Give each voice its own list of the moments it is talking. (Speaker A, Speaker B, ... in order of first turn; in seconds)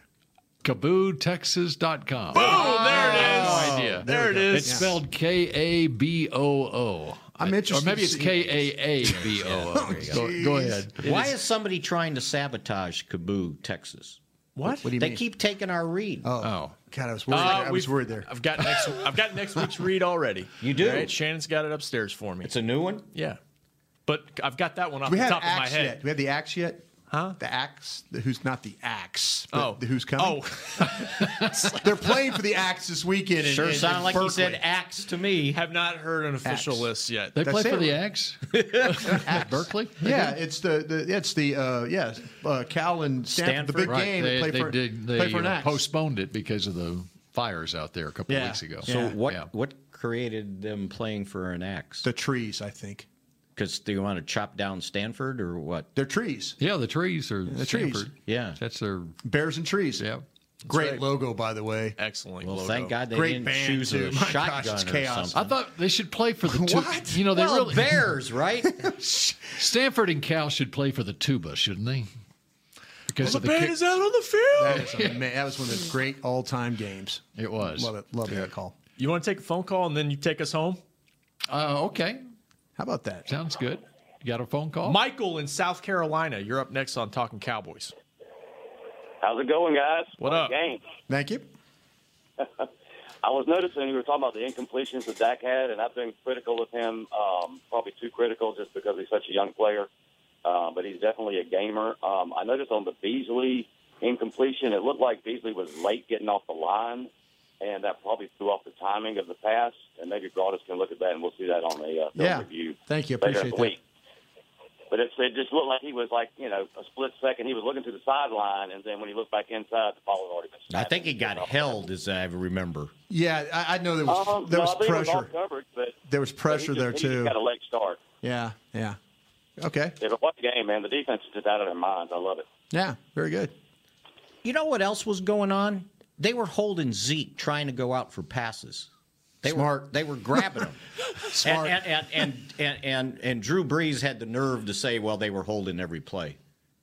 Speaker A: 0.6-11.3, 16.4-16.8, 31.2-31.7, 37.4-40.2, 43.9-49.5, 56.6-59.1, 65.3-68.1, 69.0-72.1, 73.1-73.8, 74.7-75.2, 77.4-77.9, 81.5-82.2, 83.3-85.0
Speaker B: 2.3-4.8, 14.6-14.9, 17.3-22.5, 23.1-23.4, 24.1-26.0, 27.1-27.4, 29.5-31.8, 35.5-37.4, 60.7-61.0, 62.0-62.9, 73.2-74.9, 79.0-80.8, 84.8-87.9, 90.2-90.5
Speaker C: 2.4-5.0, 7.4-9.1, 9.7-10.9, 14.8-15.2, 16.2-18.3, 25.1-26.9, 27.4-30.9, 31.8-34.6, 36.4-36.9, 37.4-38.0, 39.0-45.8, 48.3-49.1, 52.0-53.1, 56.0-56.6, 57.5-58.1, 59.2-60.0, 60.7-62.0, 63.1-65.3, 66.4-67.2, 74.6-78.8, 82.8-83.3, 91.1-91.5, 112.2-113.8, 123.1-125.3, 126.1-127.3, 128.2-129.0, 129.6-130.0, 132.7-133.5, 139.4-140.4, 141.3-141.8
Speaker D: 2.5-2.8, 9.4-10.1, 11.0-14.2, 14.9-16.3, 20.6-21.1, 22.4-23.1, 33.4-35.6, 43.3-44.0, 48.8-52.1, 53.6-55.9, 58.3-58.6, 62.4-65.5, 67.3-68.9, 120.7-122.9, 134.4-138.9, 139.4-140.8, 141.4-146.4
Speaker E: 89.2-90.8, 92.4-92.7, 93.2-99.9, 100.5-107.1, 107.6-113.8, 114.9-121.8, 124.1-128.0, 130.0-132.5